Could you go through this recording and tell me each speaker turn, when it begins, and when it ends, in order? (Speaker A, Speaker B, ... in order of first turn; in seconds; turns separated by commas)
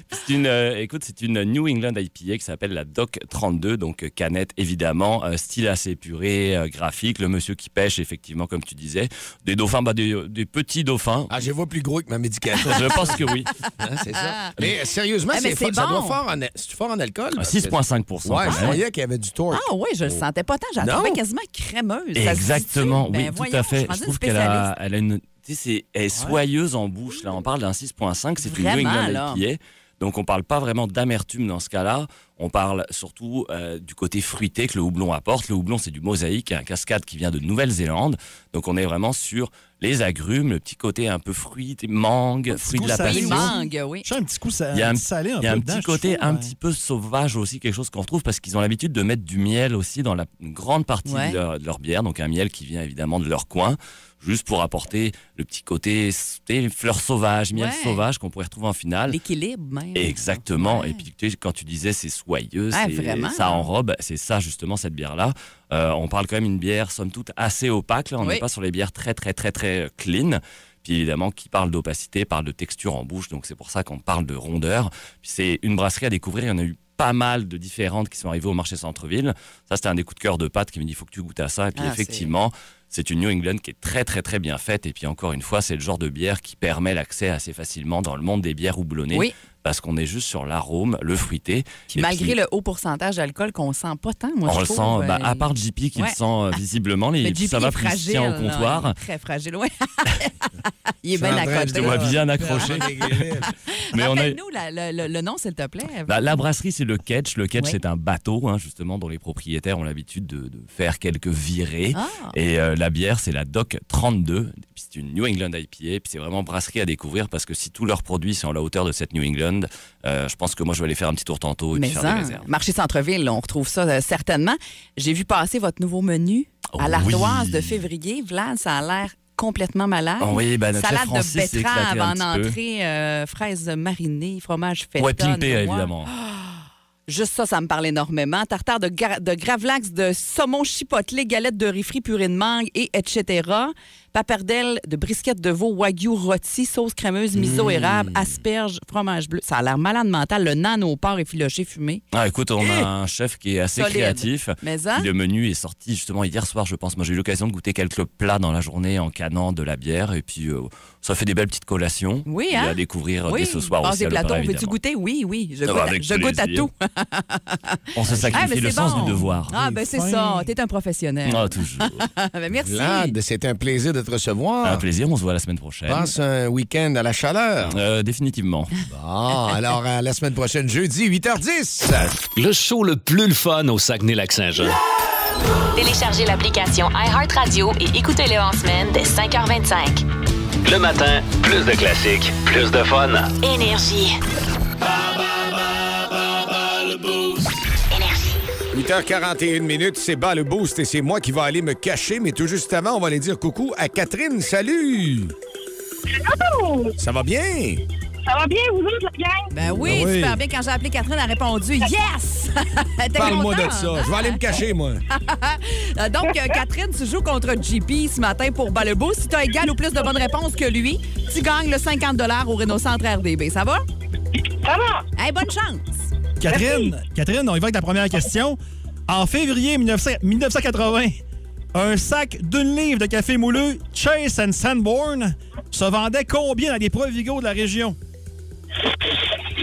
Speaker A: 0.1-11.3, Speaker B: 11.3-13.2, Speaker A: 12.6-13.5, Speaker C: 12.7-13.2, Speaker B: 13.8-20.2, Speaker C: 14.2-14.5, Speaker C: 15.3-16.2, Speaker A: 17.4-18.8, Speaker C: 18.5-18.8, Speaker C: 19.5-24.7, Speaker B: 20.8-21.2, Speaker A: 22.1-43.6, Speaker C: 28.4-29.4, Speaker D: 42.5-46.5, Speaker C: 42.9-44.1, Speaker A: 44.7-59.2, Speaker C: 51.0-51.4, Speaker C: 57.5-58.0, Speaker C: 59.1-61.0, Speaker A: 59.9-92.3, Speaker C: 62.7-63.7, Speaker C: 81.7-82.3, Speaker C: 91.9-96.2, Speaker A: 94.4-99.0, Speaker C: 97.2-102.9, Speaker B: 101.1-103.5, Speaker A: 101.6-103.4, Speaker C: 103.4-106.3, Speaker A: 103.9-104.4, Speaker A: 106.0-122.5, Speaker C: 111.9-112.3, Speaker C: 121.7-152.0, Speaker A: 126.7-127.8, Speaker A: 130.2-132.6, Speaker A: 135.0-136.1, Speaker B: 147.4-148.2, Speaker A: 152.1-164.8, Speaker C: 153.7-155.1, Speaker C: 162.2-173.1, Speaker A: 165.6-166.7, Speaker A: 167.9-169.5, Speaker D: 168.7-170.5, Speaker A: 171.2-172.0, Speaker B: 172.7-174.8, Speaker A: 174.6-176.1, Speaker B: 175.9-177.8, Speaker A: 177.6-178.7, Speaker B: 178.9-182.2, Speaker E: 182.2-184.8, Speaker F: 185.7-190.0, Speaker E: 190.6-193.3, Speaker F: 193.4-194.2, Speaker F: 197.9-198.4, Speaker B: 198.7-205.3, Speaker G: 206.1-206.9, Speaker B: 207.0-207.8, Speaker G: 208.3-209.5, Speaker C: 209.5-214.4, Speaker B: 209.7-210.2, Speaker D: 209.8-210.3, Speaker B: 213.1-215.0, Speaker C: 215.1-223.8, Speaker G: 224.6-225.0, Speaker C: 225.2-226.1, Speaker D: 226.4-231.2, Speaker G: 226.5-226.9, Speaker D: 231.7-238.0